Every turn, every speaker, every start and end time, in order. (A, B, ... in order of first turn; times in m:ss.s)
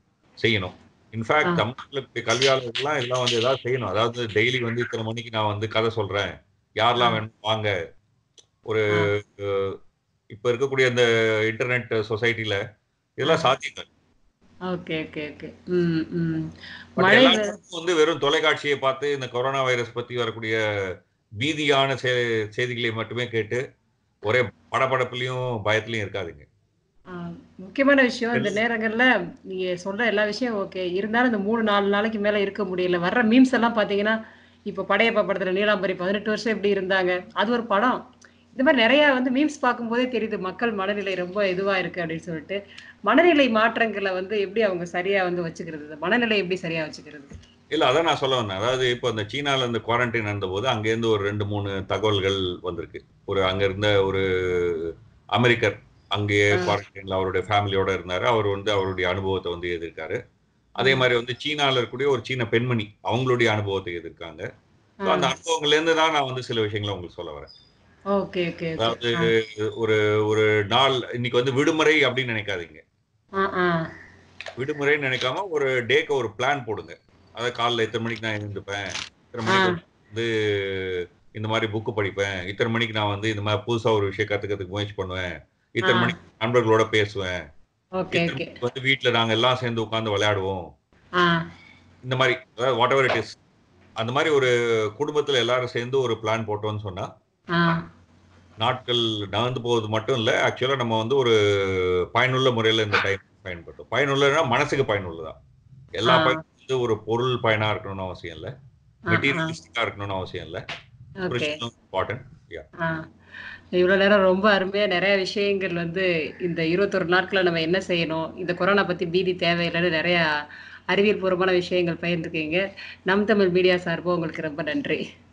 0:00.4-0:07.7 A
0:08.7-0:09.8 A
0:10.3-0:12.6 A
0:13.2-0:13.8 A
0:13.2-0:13.5 B
0:14.7-0:16.4 B
0:17.0-0:17.5 B
0:17.0-0:20.6 A
0:21.4-0:23.6 A
0:24.2-0:26.5 A
0:27.6-0:34.2 B
0:28.3-0:28.6 A
0:34.7-0:38.0 B
0:38.5-0:42.6 B
0:43.1-0:47.3 B
0:47.7-1:00.2 A
1:00.8-1:04.4 A
1:00.8-1:01.0 B
1:05.0-1:05.3 B
1:05.0-1:07.5 A
1:08.2-1:09.1 B
1:08.8-1:12.8 A
1:13.4-1:13.7 B
1:14.6-1:25.3 A
1:19.5-1:19.7 B
1:25.8-1:27.4 A
1:25.8-1:26.1 B
1:28.0-1:28.5 B
1:28.1-1:30.7 A
1:32.1-1:33.4 A
1:34.0-1:37.1 A
1:38.6-1:45.4 A
1:46.0-1:48.5 A
1:46.0-1:46.4 B
1:49.1-1:49.5 B
1:49.1-1:50.6 A
1:51.2-1:51.6 B
1:51.3-1:52.6 A
1:53.8-2:00.2 B
2:00.9-2:05.0 B